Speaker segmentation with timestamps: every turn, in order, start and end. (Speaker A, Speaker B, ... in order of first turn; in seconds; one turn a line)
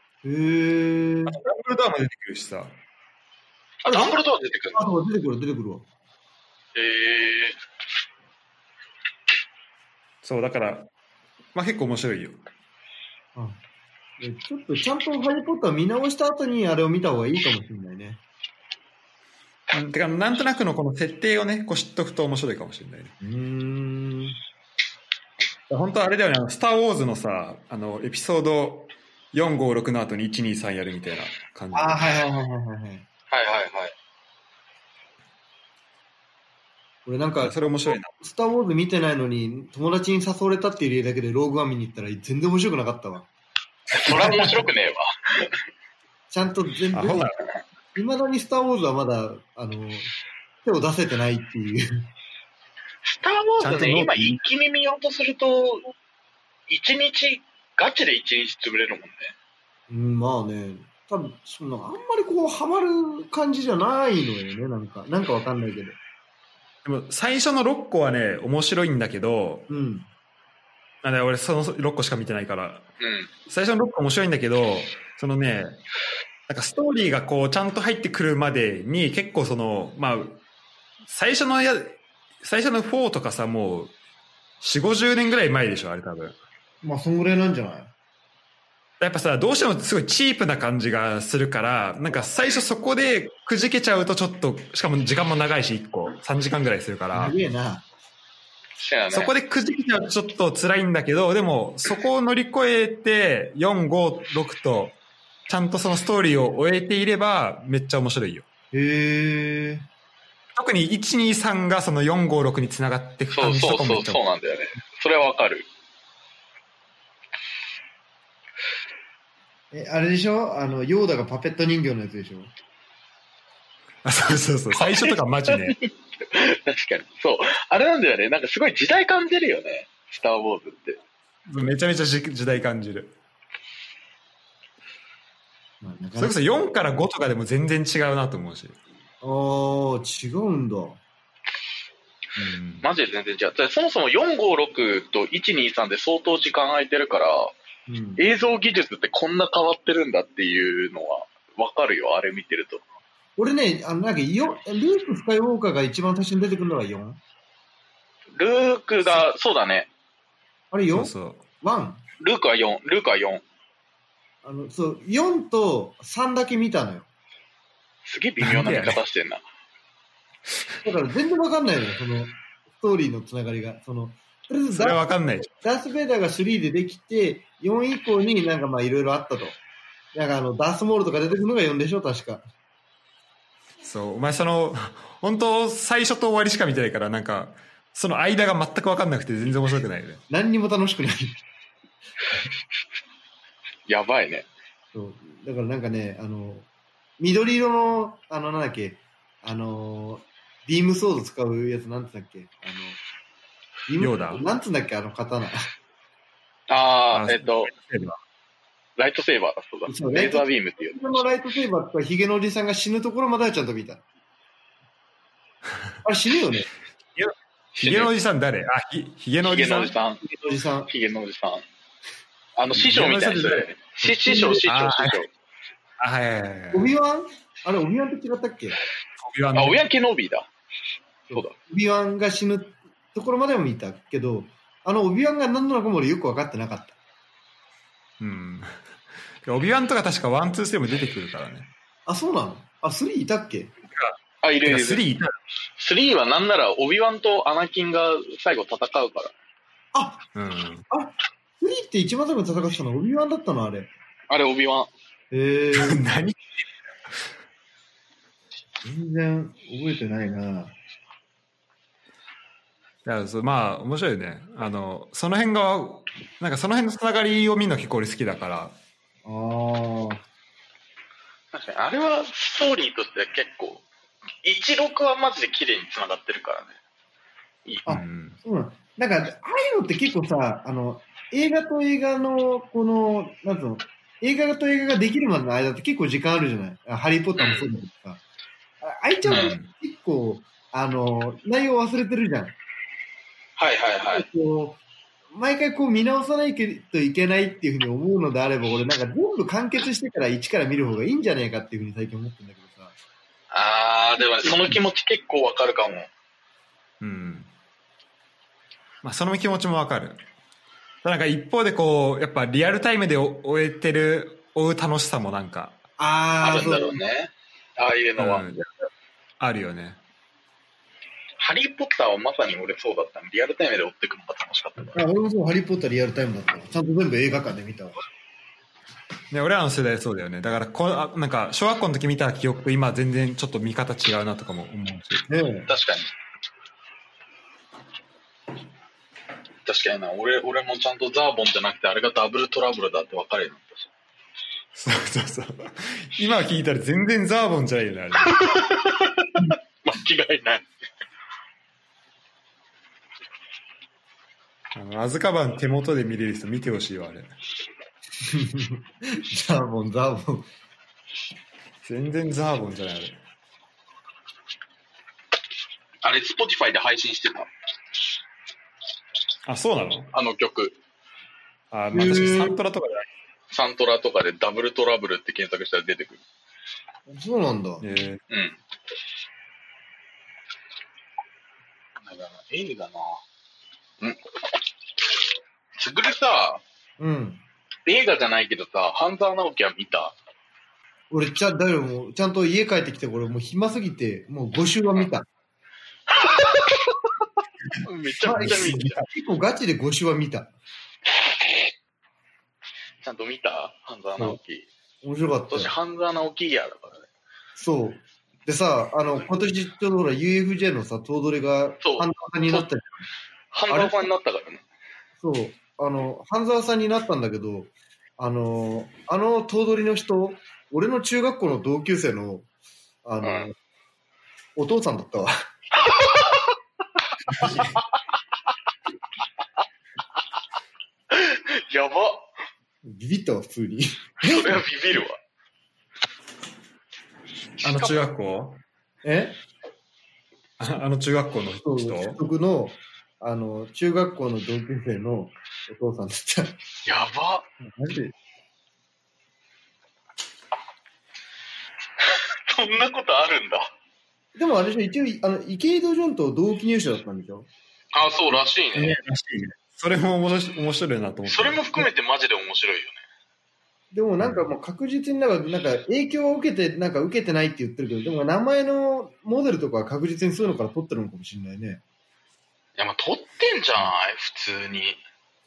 Speaker A: 0.2-1.4
Speaker B: 1.3-2.8
Speaker C: 3.8-4.8
Speaker A: 3.9-4.2
Speaker A: 4.8-5.8
Speaker C: 6.8-7.6
Speaker B: 10.2-10.9
Speaker B: 11.6-12.4
Speaker A: 13.3-13.6
Speaker A: 14.2-18.2
Speaker B: 19.7-23.1
Speaker A: 23.2-24.4
Speaker B: 25.7-32.1
Speaker A: 31.7-33.0
Speaker C: 33.3-33.9
Speaker A: 37.1-43.3
Speaker B: 37.4-38.1
Speaker C: 43.9-45.5
Speaker B: 44.0-44.5
Speaker A: 46.3-47.3
Speaker B: 46.9-47.4
Speaker A: 48.0-50.1
Speaker A: 50.6-51.9
Speaker C: 53.0-55.9
Speaker B: 53.6-54.4
Speaker C: 56.7-59.3
Speaker A: 59.9-66.0
Speaker B: 66.8-69.7
Speaker A: 69.7-70.1
Speaker B: 71.0-72.9
Speaker C: 73.0-73.3
Speaker B: 73.5-75.8
Speaker B: 76.5-80.4
Speaker B: 81.0-83.9
Speaker B: 84.6-86.4
Speaker A: 86.8-87.9
Speaker B: 89.0-97.3
Speaker A: 97.1-97.9
Speaker C: 98.8-99.3
Speaker B: 99.1-105.0
Speaker B: 105.5-108.5
Speaker A: 108.7-109.9
Speaker B: 110.6-114.2
Speaker C: 113.3-115.7
Speaker A: 119.7-122.5
Speaker B: 124.0-125.8
Speaker C: 124.8-131.0
Speaker B: 131.5-133.1
Speaker A: 135.8-136.4
Speaker B: 136.2-138.8
Speaker A: 139.2-141.0
Speaker B: 142.4-142.9
Speaker C: 142.8-147.5
Speaker A: 147.9-148.2
Speaker C: 148.2-152.8
Speaker A: 153.4-157.2
Speaker C: 158.4-159.9
Speaker A: 160.7-162.0
Speaker B: 160.9-161.4
Speaker C: 162.2-163.4
Speaker A: 164.4-167.1
Speaker C: 168.1-169.4
Speaker B: 168.4-169.0
Speaker A: 170.8-179.6
Speaker B: 174.7-175.5
Speaker A: 180.1-182.4
Speaker B: 183.8-190.2
Speaker A: 190.3-191.4
Speaker C: 193.9-194.5
Speaker A: 194.9-196.7
Speaker A: 197.2-203.0
Speaker A: 203.9-205.7
Speaker B: 204.0-204.4
Speaker C: 206.7-207.7
Speaker B: 207.1-208.2
Speaker C: 209.0-211.2
Speaker A: 209.9-214.0
Speaker A: 216.0-216.7
Speaker B: 217.2-219.9
Speaker C: 217.8-218.1
Speaker C: 219.4-220.2
Speaker A: 220.2-220.9
Speaker C: 220.9-221.7
Speaker C: 222.6-225.3
Speaker B: 222.7-223.7
Speaker A: 224.0-224.7
Speaker B: 224.7-225.2
Speaker B: 226.0-226.9
Speaker A: 226.7-228.8
Speaker B: 229.2-229.8
Speaker C: 229.6-230.5
Speaker A: 231.3-236.9
Speaker B: 238.2-238.8
Speaker B: 239.4-241.7
Speaker A: 242.1-243.7
Speaker B: 243.9-245.3
Speaker C: 244.4-245.0
Speaker C: 245.8-249.3
Speaker A: 249.9-250.2
Speaker B: 250.3-250.9
Speaker A: 250.9-253.9
Speaker C: 254.3-254.9
Speaker A: 255.3-256.0
Speaker B: 255.7-256.4
Speaker A: 258.8-260.8
Speaker B: 263.1-268.8
Speaker A: 269.2-270.2
Speaker C: 271.5-273.9
Speaker C: 274.4-276.8
Speaker A: 277.9-288.2
Speaker B: 277.9-278.4
Speaker C: 287.4-287.7
Speaker A: 288.8-292.6
Speaker B: 289.3-289.7
Speaker C: 289.3-289.5
Speaker C: 293.6-294.3
Speaker A: 294.1-294.8
Speaker A: 295.3-302.9
Speaker C: 303.5-306.1
Speaker B: 307.0-307.5
Speaker B: 309.0-310.2
Speaker B: 311.0-315.8
Speaker A: 316.0-317.0
Speaker C: 316.4-318.5
Speaker B: 318.2-318.7
Speaker B: 319.4-320.0
Speaker C: 321.4-325.0
Speaker A: 324.9-328.0
Speaker B: 329.3-335.3
Speaker A: 335.3-335.7
Speaker C: 335.7-336.1
Speaker C: 339.6-343.9
Speaker B: 344.7-348.4
Speaker C: 348.2-350.7
Speaker B: 354.8-357.3
Speaker A: 358.2-360.5
Speaker B: 361.8-363.2
Speaker C: 366.0-367.5
Speaker B: 369.5-370.1
Speaker C: 370.1-370.8
Speaker B: 371.7-373.1
Speaker A: 371.9-372.6
Speaker C: 373.5-376.2
Speaker A: 377.1-377.9
Speaker B: 377.8-378.2
Speaker C: 378.3-378.6
Speaker C: 382.0-383.2
Speaker C: 385.8-386.6
Speaker A: 387.0-387.4
Speaker C: 387.9-390.1
Speaker A: 391.1-395.3
Speaker C: 396.1-397.0
Speaker C: 397.8-399.0
Speaker A: 398.2-400.5
Speaker C: 403.0-404.7
Speaker A: 405.0-405.7
Speaker C: 405.5-407.1
Speaker A: 407.6-413.1
Speaker C: 411.8-412.7
Speaker C: 413.5-414.6
Speaker A: 413.7-414.1
Speaker A: 415.2-422.5
Speaker A: 423.1-423.5
Speaker C: 423.2-423.5
Speaker A: 424.6-425.3
Speaker C: 425.8-426.5
Speaker B: 427.4-427.7
Speaker C: 431.1-432.3
Speaker A: 432.8-434.6
Speaker C: 434.2-435.2
Speaker B: 437.6-438.6
Speaker C: 437.6-438.1
Speaker A: 439.0-439.4
Speaker B: 440.6-442.2
Speaker A: 441.6-446.6
Speaker C: 446.9-447.5
Speaker A: 447.6-448.1
Speaker C: 452.1-453.7
Speaker A: 454.4-457.5
Speaker C: 457.9-459.0
Speaker B: 458.8-461.9
Speaker C: 461.2-463.0
Speaker A: 463.9-471.8
Speaker B: 464.2-464.5
Speaker C: 472.8-475.0